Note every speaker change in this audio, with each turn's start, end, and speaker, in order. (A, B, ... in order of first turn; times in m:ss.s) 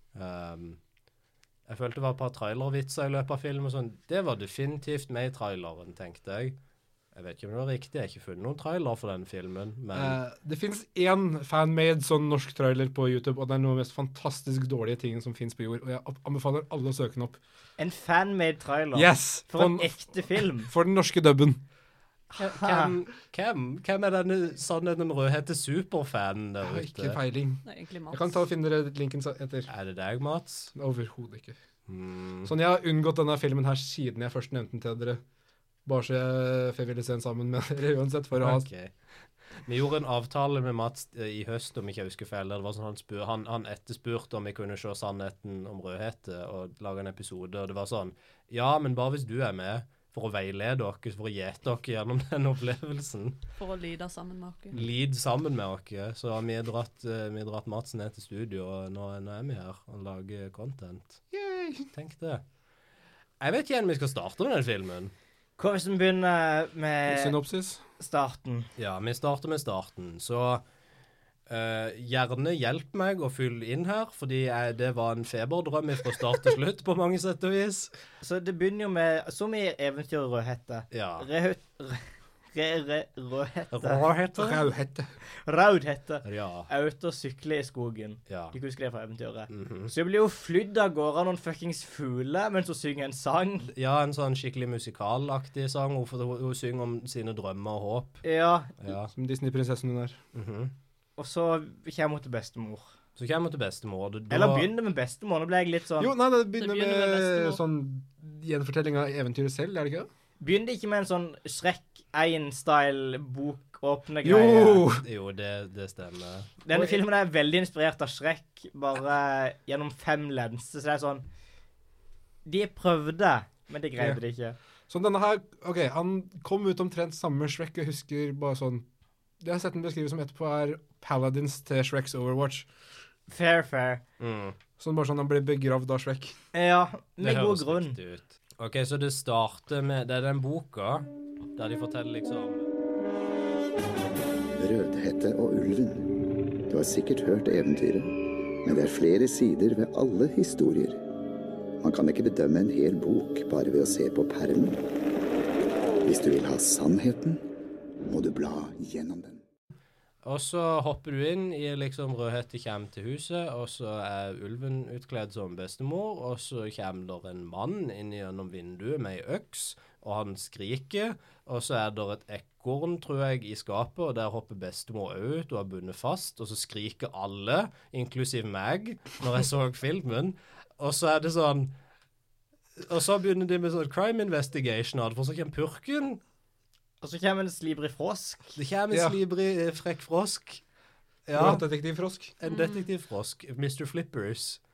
0:00.2-0:00.8 A
0:01.7-0:06.6 A
0:07.1-0:10.2 A
0:09.9-0:17.4 B
0:17.8-0:20.7 C
0:18.9-0:21.6 B
0:22.4-0:27.2 A
0:22.4-0:22.9 C
0:26.6-0:29.7 B
0:27.6-0:28.4 D
0:29.7-0:30.7 A
0:30.8-0:31.6 B
0:31.9-0:32.5 A
0:32.4-0:35.2 B
0:35.9-0:38.7 B
0:38.4-0:38.9 A
0:39.6-0:53.4 A
0:53.6-0:54.8 D
0:54.7-1:01.2 A
1:01.3-1:01.9 B
1:01.9-1:02.4 A
1:03.4-1:05.1 A
1:05.6-1:07.4 C
1:07.1-1:07.8 B
1:08.0-1:08.7 C
1:08.8-1:10.6 A
1:11.5-1:17.9 A
1:18.2-1:24.0 C
1:20.9-1:21.3 A
1:23.7-1:24.6 A
1:24.4-1:25.1 B
1:25.4-1:33.7 C
1:26.2-1:26.7 A
1:28.3-1:28.6 A
1:29.5-1:29.9 A
1:33.7-1:38.2 A
1:38.2-1:38.7 C
1:38.8-1:39.1 A
1:39.1-1:40.2 B
1:40.3-1:40.7 A
1:41.2-1:42.9 C
1:43.2-1:44.7 A
1:44.3-1:46.1 C
1:46.0-1:50.1 B
1:46.6-1:47.6 D
1:50.4-1:54.9 C
1:54.2-1:55.0 B
1:54.9-1:56.6 A
1:56.6-2:01.2 C
1:56.7-1:57.0 B
2:02.4-2:04.6 C
2:04.9-2:08.8 B
2:09.4-2:12.7 B
2:13.3-2:14.0 C
2:14.2-2:14.6 A
2:14.8-2:16.4 B
2:16.5-2:18.0 C
2:17.2-2:22.7 A
2:24.6-2:26.1 E
2:26.7-2:28.1 E
2:28.6-2:31.0 E
2:31.8-2:34.8 E
2:36.0-2:37.4 E
2:38.1-2:39.4 E
2:40.2-3:01.7 A
3:02.8-3:06.2 A
3:07.0-3:08.5 C
3:08.6-3:10.6 A
3:08.9-3:09.2 B
3:11.3-3:11.6 A
3:11.4-3:12.3 B
3:12.4-3:14.6 A